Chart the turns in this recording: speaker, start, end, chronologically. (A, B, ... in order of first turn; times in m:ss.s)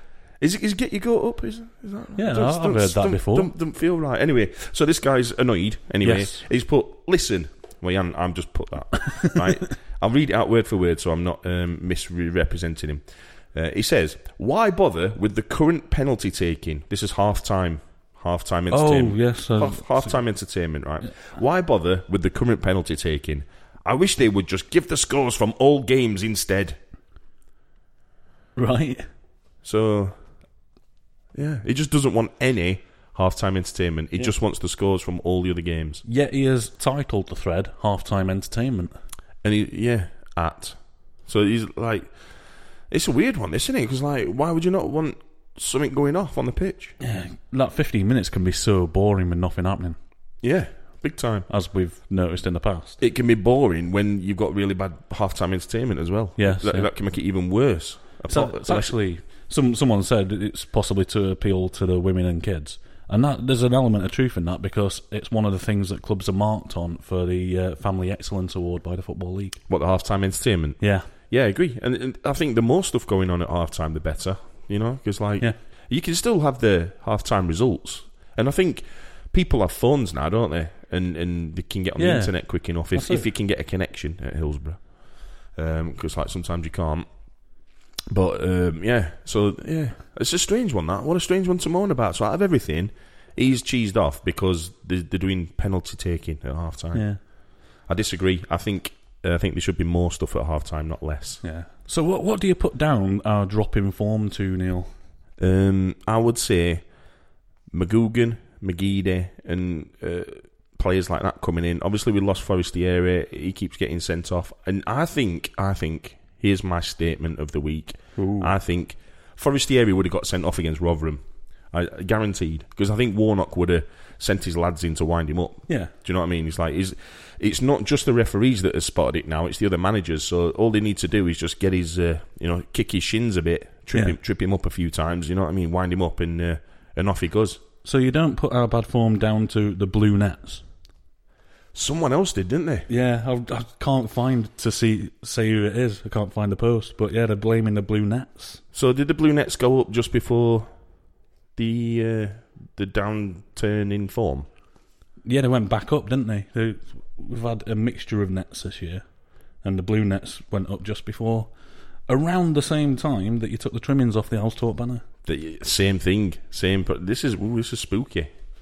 0:00.4-0:26.8 A
0:02.2-0:03.5 B
0:06.0-0:06.4 B
0:18.7-0:20.2 B
0:28.6-0:29.1 B
0:29.6-0:30.2 A
0:31.3-0:36.0 A
0:36.0-0:38.9 B
0:39.4-0:47.0 A
0:47.0-0:50.0 B
0:50.4-0:51.5 A
0:51.5-0:53.0 B
0:53.0-0:59.0 A
0:56.4-0:56.9 B
0:58.3-1:09.6 B
1:09.7-1:27.1 A
1:10.8-1:11.1 B
1:22.0-1:23.2 B
1:28.1-1:41.4 A
1:36.9-1:37.2 B
1:41.4-1:44.9 B
1:45.4-1:46.9 A
1:47.7-2:17.6 A
1:58.2-1:58.5 B
2:05.7-2:05.9 B
2:17.8-2:20.6 B
2:21.7-2:22.9 A
2:22.9-2:28.6 B
2:28.7-2:30.7 A
2:31.6-2:34.5 A
2:35.2-2:39.0 B
2:39.6-2:41.5 B
2:42.1-2:45.0 B
2:45.2-2:48.3 A